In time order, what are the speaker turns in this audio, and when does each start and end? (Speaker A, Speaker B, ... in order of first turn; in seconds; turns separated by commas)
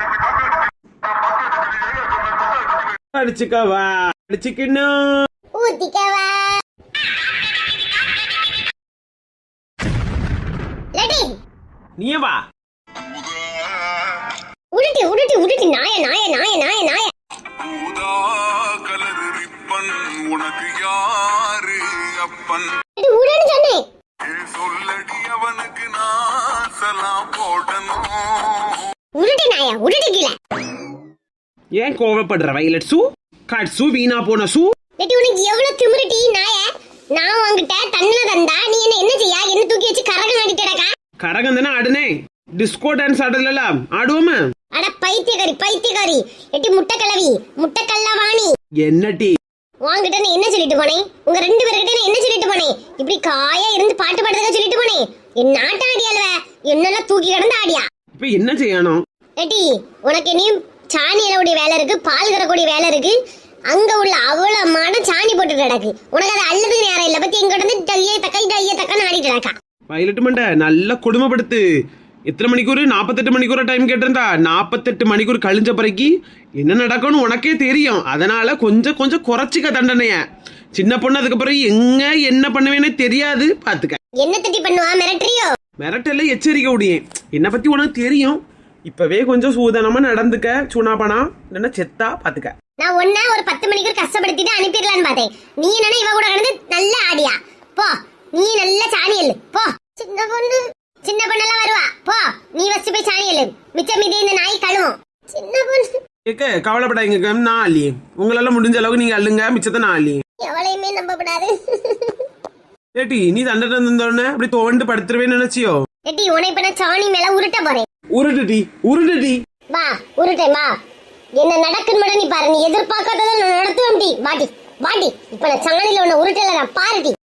Speaker A: 3.1-5.2, Speaker B: 5.5-6.6, Speaker B: 10.9-11.3, Speaker A: 12.0-12.4, Speaker B: 14.7-17.1, Speaker C: 17.7-22.6, Speaker B: 23.0-23.8, Speaker C: 24.4-26.2, Speaker C: 26.9-27.9, Speaker B: 29.2-30.4, Speaker A: 31.8-34.7, Speaker B: 35.0-41.0, Speaker A: 41.2-44.4, Speaker B: 44.7-48.5, Speaker A: 48.8-49.3, Speaker B: 49.8-57.9, Speaker A: 58.2-59.0, Speaker B: 59.4-63.2, Speaker B: 63.7-69.6, Speaker A: 69.9-71.6, Speaker A: 72.3-80.2, Speaker A: 80.8-84.0, Speaker B: 84.2-85.5, Speaker A: 85.8-92.5, Speaker B: 92.8-106.0, Speaker A: 106.3-110.2, Speaker B: 110.4-112.2, Speaker A: 113.0-115.8, Speaker B: 116.1-117.9, Speaker A: 118.1-119.4, Speaker B: 119.7-120.8, Speaker B: 121.4-127.2